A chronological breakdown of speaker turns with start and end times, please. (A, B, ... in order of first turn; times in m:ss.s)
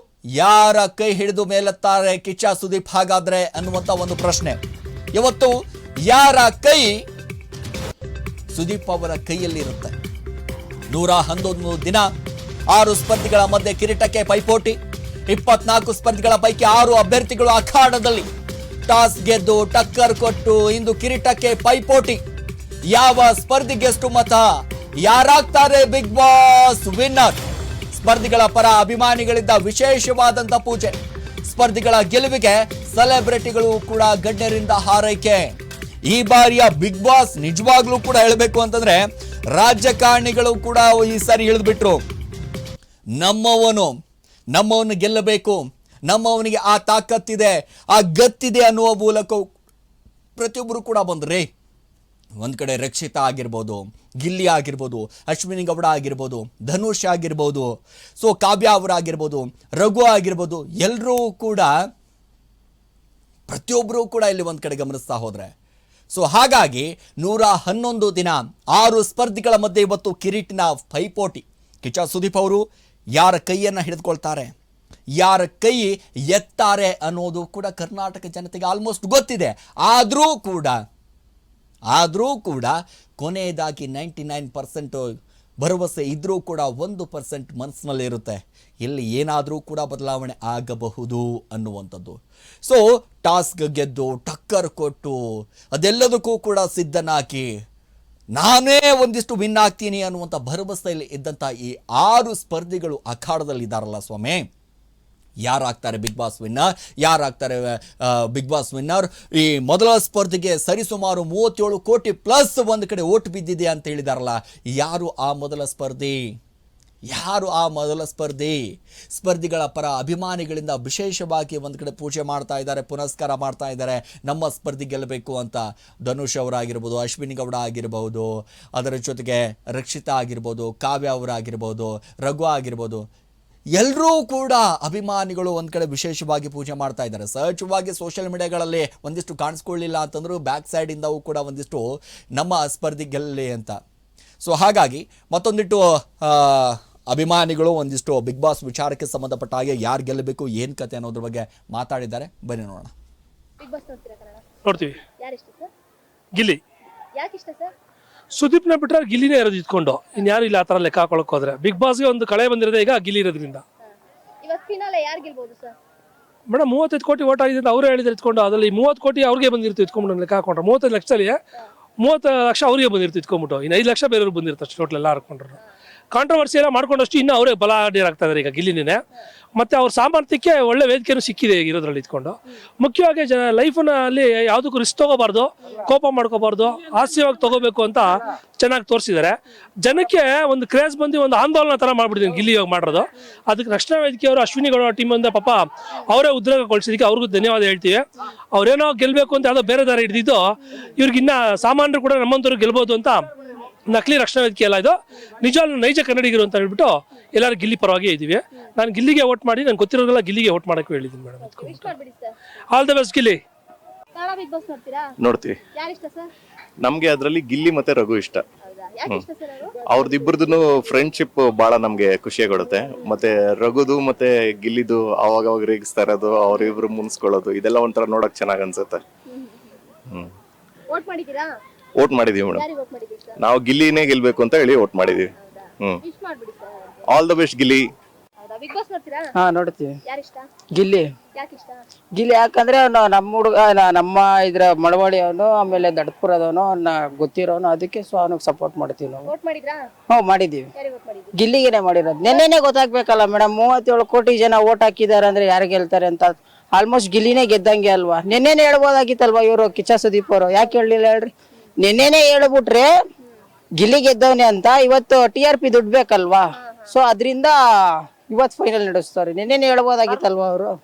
0:00.4-0:04.6 A
0:05.2-0:07.0 A
0:08.5-0:09.9 A
0:10.9-0:12.1 A
0:12.7-0:18.3 A
0:18.9-0:22.2 A
0:22.9-0:24.4 A
0:25.0-0:27.4 A
0:27.9-0:35.5 A
0:36.1-0:42.0 A
0:43.2-0:44.0 A
0:44.5-0:49.4 A
0:50.4-0:51.5 A
0:52.4-1:01.8 A
1:03.5-1:05.5 A
1:06.1-1:12.6 A
1:13.2-1:14.5 A
1:15.2-1:20.8 A
1:21.9-1:35.2 A
1:35.7-1:37.5 A
1:38.3-1:44.5 A
1:45.4-1:56.2 A
1:57.1-1:58.6 A
1:59.1-2:13.0 A
2:13.8-2:23.8 A
2:24.4-2:32.9 A
2:33.6-2:34.6 B
2:34.6-2:35.0 C
2:35.2-2:35.7 B
2:36.4-2:36.6 C
2:37.2-2:37.7 B
2:38.3-2:43.6 C
2:44.4-2:45.7 B
2:46.5-2:51.4 C
2:52.0-2:55.6 C
2:56.1-2:59.0 C
2:59.6-3:23.3 C
3:23.9-3:31.9 C
3:31.4-3:32.3 B
3:32.7-3:33.4 C
3:34.2-3:35.1 B
3:35.2-3:35.6 D
3:35.8-3:36.3 B
3:36.8-3:38.4 D
3:38.6-3:40.9 B
3:39.8-3:49.0 D
3:49.3-3:49.8 B
3:50.9-3:51.5 B
3:52.0-3:52.6 D
3:52.4-3:53.4 B
3:53.4-3:55.3 D
3:55.4-3:57.1 B
3:57.1-3:57.9 D
3:58.4-3:59.2 B
3:59.4-4:00.0 E
4:00.1-4:00.5 B
4:00.7-4:01.1 E
4:01.3-4:01.8 B
4:02.1-4:09.3 E
4:09.3-4:09.8 B
4:10.1-4:10.7 E
4:10.7-4:11.3 B
4:11.4-4:22.9 E
4:23.8-4:30.8 E
4:26.6-4:26.9 B